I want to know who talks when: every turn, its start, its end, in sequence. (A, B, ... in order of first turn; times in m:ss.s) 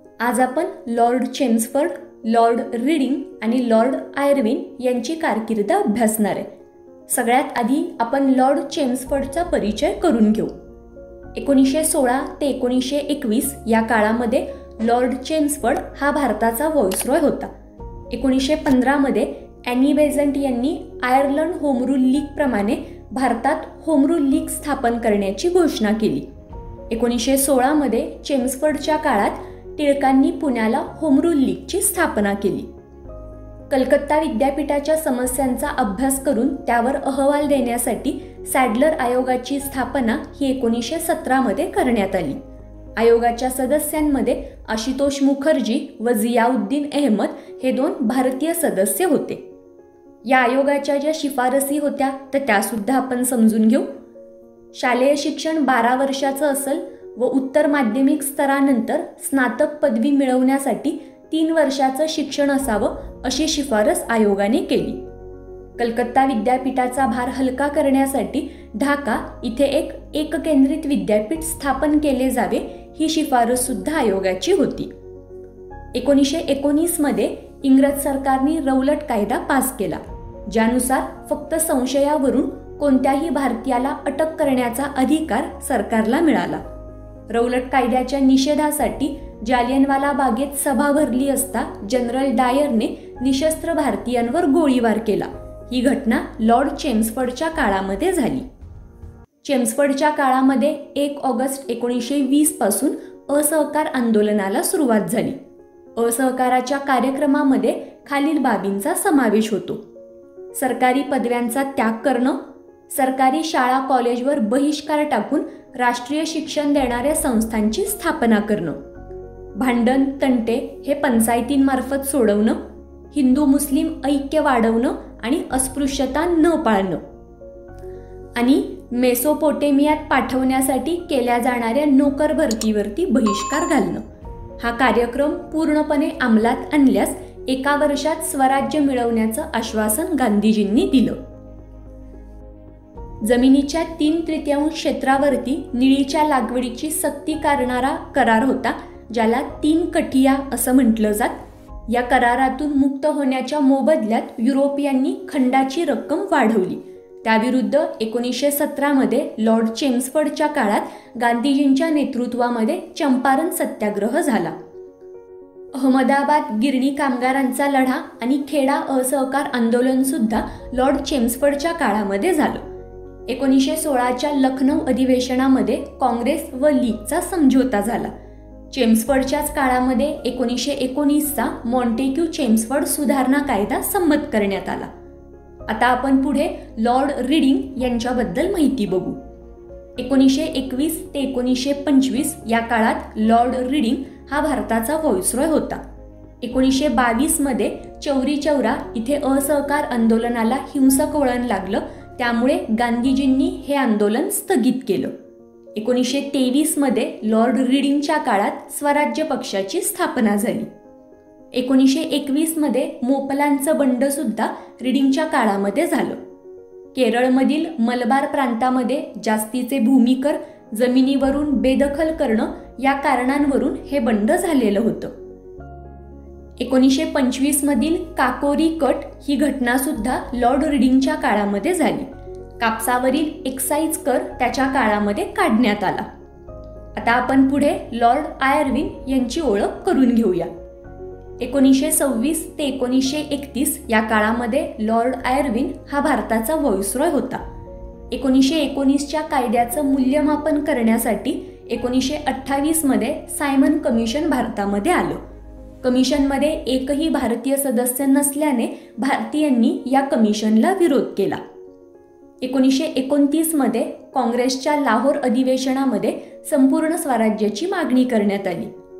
0:00.2-0:06.5 A
0:07.1-0:10.5 A
0:11.4-0:17.5 A
0:18.1-0:26.3 A
0:26.9-0:32.7 A
0:33.7-0:42.4 A
0:43.0-0:49.4 A
0:50.2-0:53.9 A
0:54.7-1:05.0 A
1:05.8-1:14.9 A
1:15.9-1:26.6 A
1:27.3-1:38.5 A
1:39.4-1:45.4 A
1:46.0-1:49.8 A
1:50.5-1:52.4 A
1:52.9-1:58.8 A
1:59.6-2:02.6 A
2:03.1-2:07.0 A
2:08.4-2:14.0 A
2:14.6-2:21.2 A
2:23.2-2:44.6 A
2:45.7-2:52.6 A
2:53.3-2:58.1 A
2:58.7-3:04.9 A
3:05.7-3:09.2 A
3:10.0-3:15.8 A
3:16.4-3:25.1 A
3:25.8-3:30.7 A
3:31.5-3:36.2 A
3:36.9-3:45.1 A
3:46.6-3:52.1 A
3:52.6-3:56.1 A
3:57.0-4:00.5 A
4:01.4-4:07.4 A
4:08.1-4:15.2 A
4:15.8-4:21.4 A
4:22.4-4:28.7 A